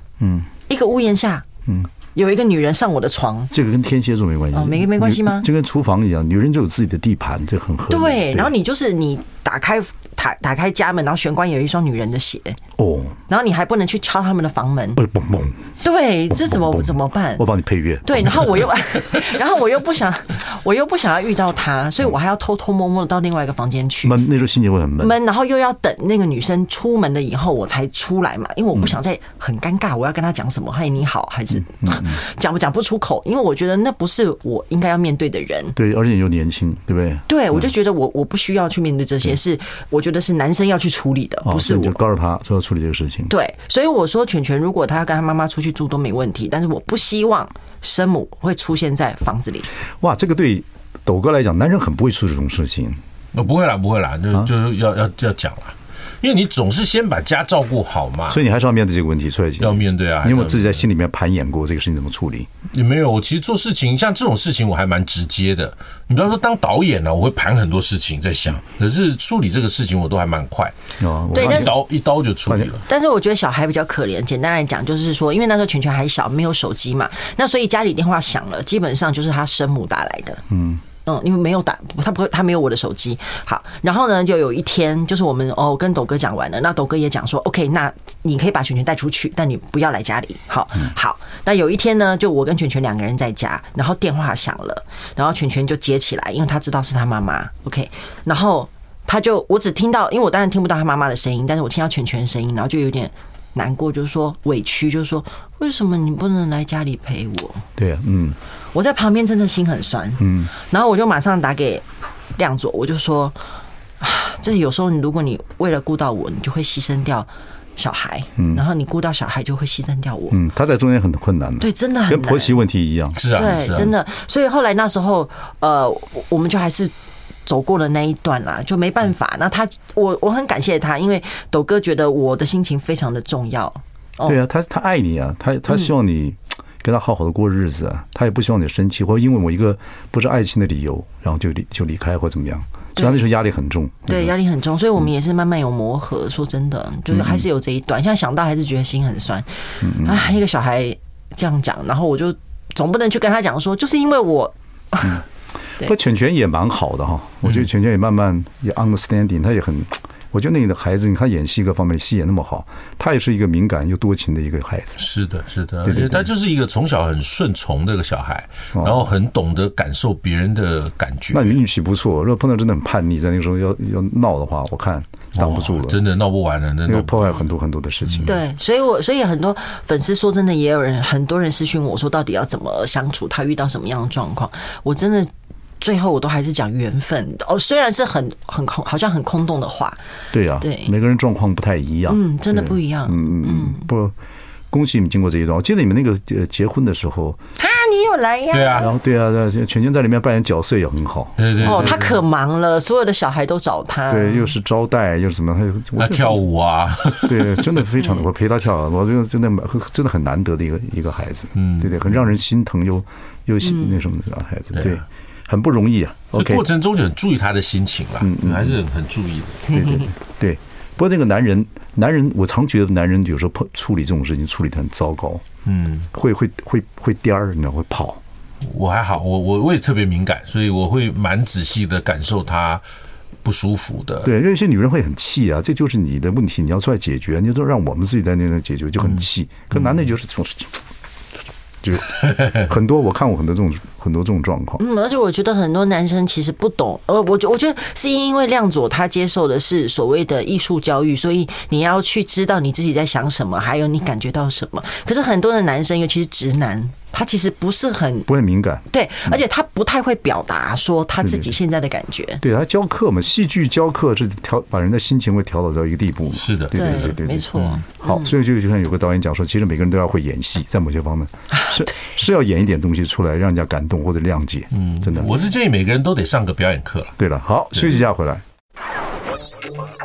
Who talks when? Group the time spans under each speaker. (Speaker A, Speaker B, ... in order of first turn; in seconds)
Speaker A: 0.2-0.5, 1.6-1.9, 3.5-8.5, 12.8-13.2, 14.9-15.7, 16.3-18.6, 24.0-25.1, 31.6-32.2, 35.7-37.7, 41.4-43.3, 50.0-53.0, 58.3-62.5, 71.0-71.7, 80.5-80.8, 107.8-108.4, 110.2-110.5, 118.4-118.6, 120.3-123.2, 134.2-144.3, 147.1-147.4, 149.8-150.4, 155.8-165.0, 165.8-166.3, 168.7-169.1, 171.3-176.0, 176.9-178.4, 190.3-194.1, 194.7-197.4, 198.8-202.1, 204.1-206.4, 207.1-216.6, 218.2-218.8, 219.7-225.4, 226.1-228.2, 234.2-240.8, 241.8-244.8, 258.3-259.4, 261.2-261.5, 262.4-275.5, 277.2-278.4
Speaker B: 0.7-1.5, 2.1-3.5, 4.5-5.5, 7.9-12.6, 13.3-15.0, 15.8-17.4, 18.0-24.1, 25.0-35.7, 37.3-42.0, 43.3-49.7, 71.3-71.7, 72.9-80.4, 81.0-107.7, 108.7-111.8, 112.3-113.4, 114.0-120.4, 121.6-122.6, 123.3-126.9, 127.5-134.4, 144.1-149.5, 150.0-155.2, 178.2-190.0, 190.6-190.9, 192.1-193.9, 197.6-198.9, 201.6-204.5, 213.6-214.1, 244.8-258.3, 258.9-262.4, 266.7-268.3
Speaker C: 53.3-58.4, 59.6-60.8, 62.7-70.8, 71.3-72.8, 123.2-123.9, 165.0-171.6, 175.4-177.2, 178.1-178.3, 198.5-198.9, 201.4-202.1, 206.0-207.9, 211.6-212.3, 214.7-215.0, 216.3-219.9, 225.7-226.1, 228.6-232.8, 233.4-234.3, 266.3-267.8, 274.7-277.1